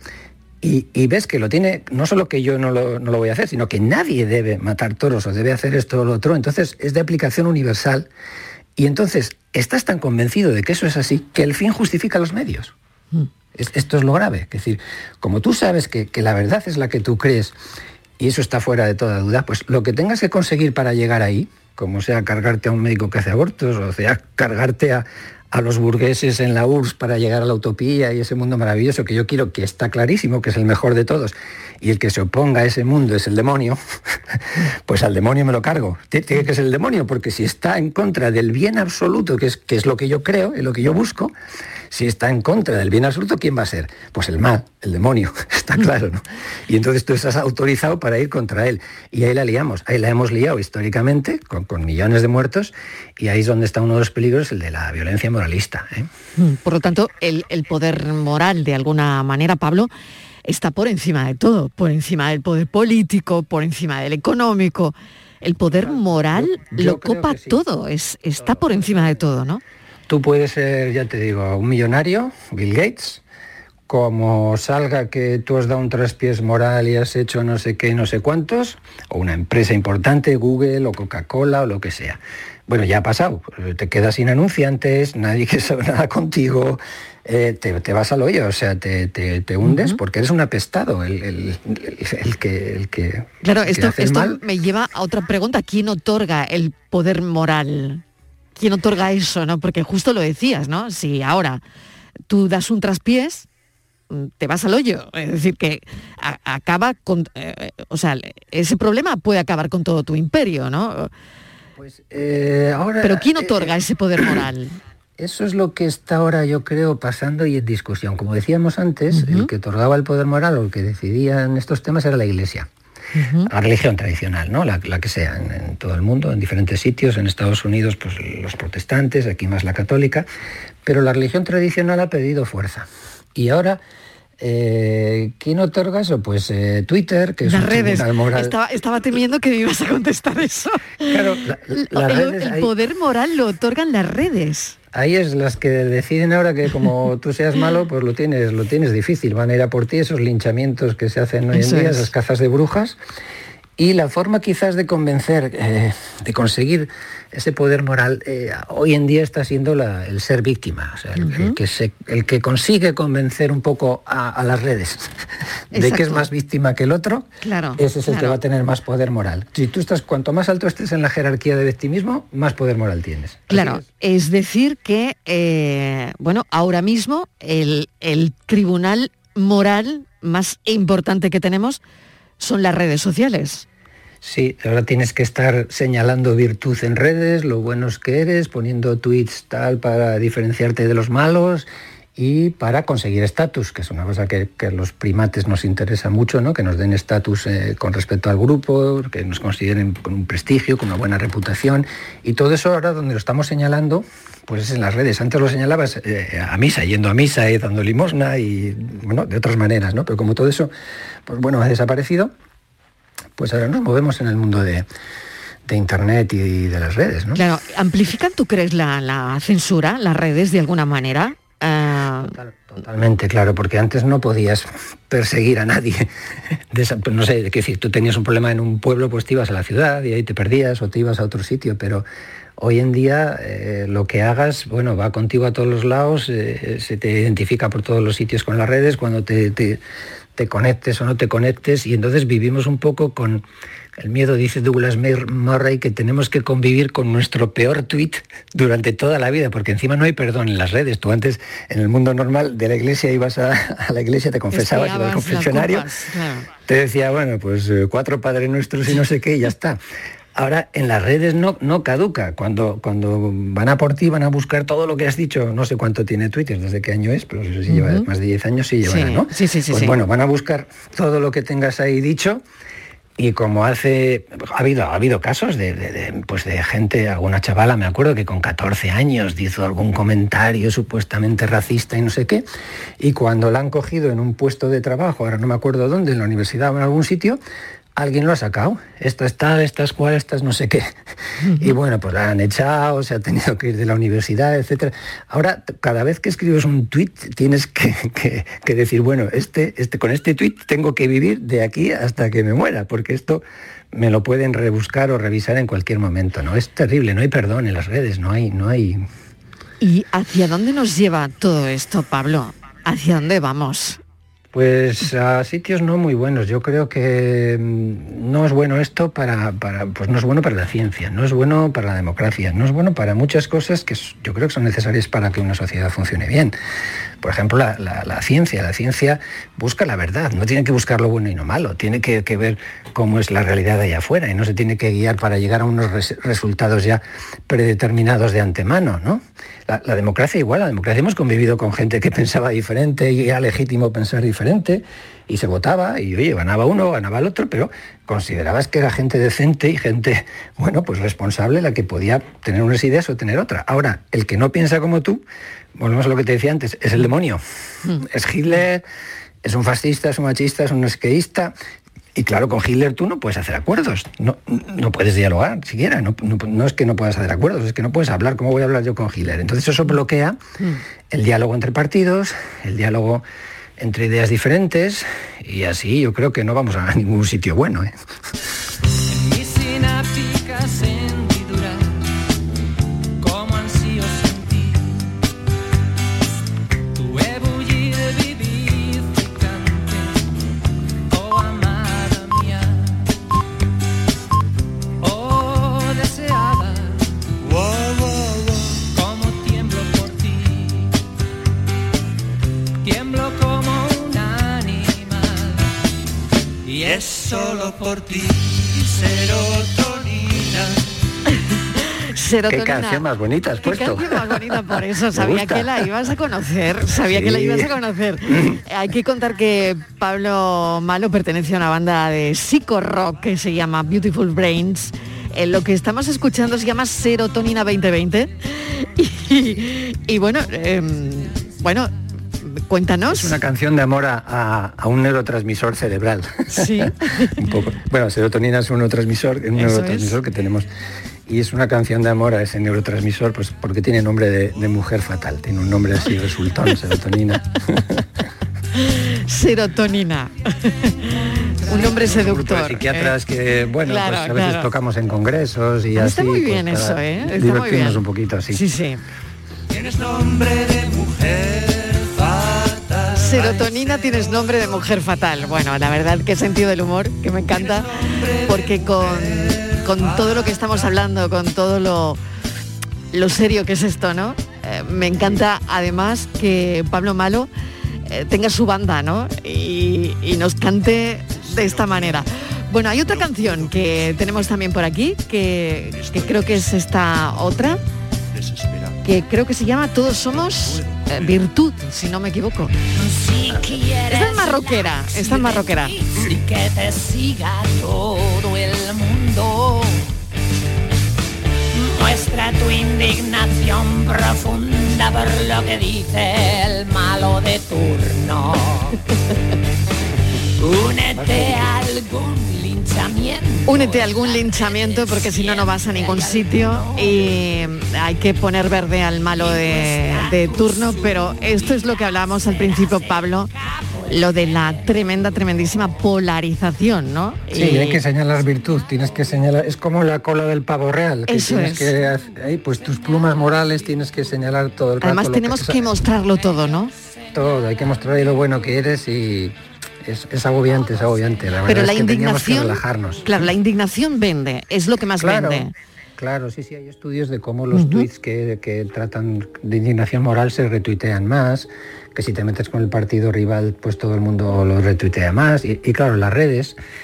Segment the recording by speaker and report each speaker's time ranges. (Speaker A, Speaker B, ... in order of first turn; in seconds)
Speaker A: 0.6-8.1, 8.8-12.7, 13.5-17.6, 18.2-33.8, 34.3-41.3, 41.9-56.1, 65.7-67.6, 68.4-69.2, 70.1-73.2, 73.9-94.4, 111.8-113.7, 115.2-122.7, 123.5-130.3, 130.8-133.8, 134.4-138.5, 141.0-142.7, 144.9-153.0, 153.8-165.2, 165.7-173.8, 184.2-210.7, 211.2-212.3, 213.4-214.9, 215.7-217.4, 222.2-232.1, 232.6-239.8, 240.3-243.4, 244.0-255.9, 256.6-259.8, 260.3-272.4, 273.2-282.5, 283.0-287.4, 287.9-291.0, 291.6-309.0, 314.5-326.5, 327.2-355.2, 355.8-357.4, 358.0-358.8, 359.4-361.6, 362.1-370.4, 371.1-373.2, 373.8-377.9, 412.5-415.9, 417.0-417.7, 418.3-418.6, 433.1-440.7, 441.3-448.1, 451.9-458.6, 511.1-511.6, 527.5-536.0, 537.3-543.5, 545.2-556.8
Speaker B: 56.4-59.9, 60.4-69.6, 89.7-90.0, 93.4-98.0, 98.5-101.6, 102.3-103.5, 104.1-111.1, 113.0-114.8, 119.1-119.5, 123.1-123.5, 137.4-144.8, 151.5-152.1, 161.2-161.6, 165.7-166.2, 167.4-168.4, 173.5-181.8, 182.4-183.7, 217.3-222.3, 254.5-256.5, 267.7-268.1, 268.8-270.0, 291.4-291.7, 309.8-314.0, 412.0-413.0, 413.6-433.4, 436.5-437.4, 439.6-440.2, 448.7-453.2, 453.8-454.7, 455.9-459.0, 463.1-472.2, 473.1-477.5, 478.1-487.8, 489.0-492.7, 494.1-496.0, 513.6-523.5, 524.1-528.0, 531.3-531.9, 535.0-536.9, 541.6-545.7, 547.7-548.1
Speaker C: 379.1-382.0, 383.2-385.1, 386.9-390.3, 391.1-393.1, 395.0-400.9, 402.8-405.7, 406.6-410.8, 459.7-463.0
Speaker D: 492.9-500.0, 501.7-509.0, 510.6-517.8, 519.3-525.8, 533.0-533.7, 537.0-538.2, 540.8-541.5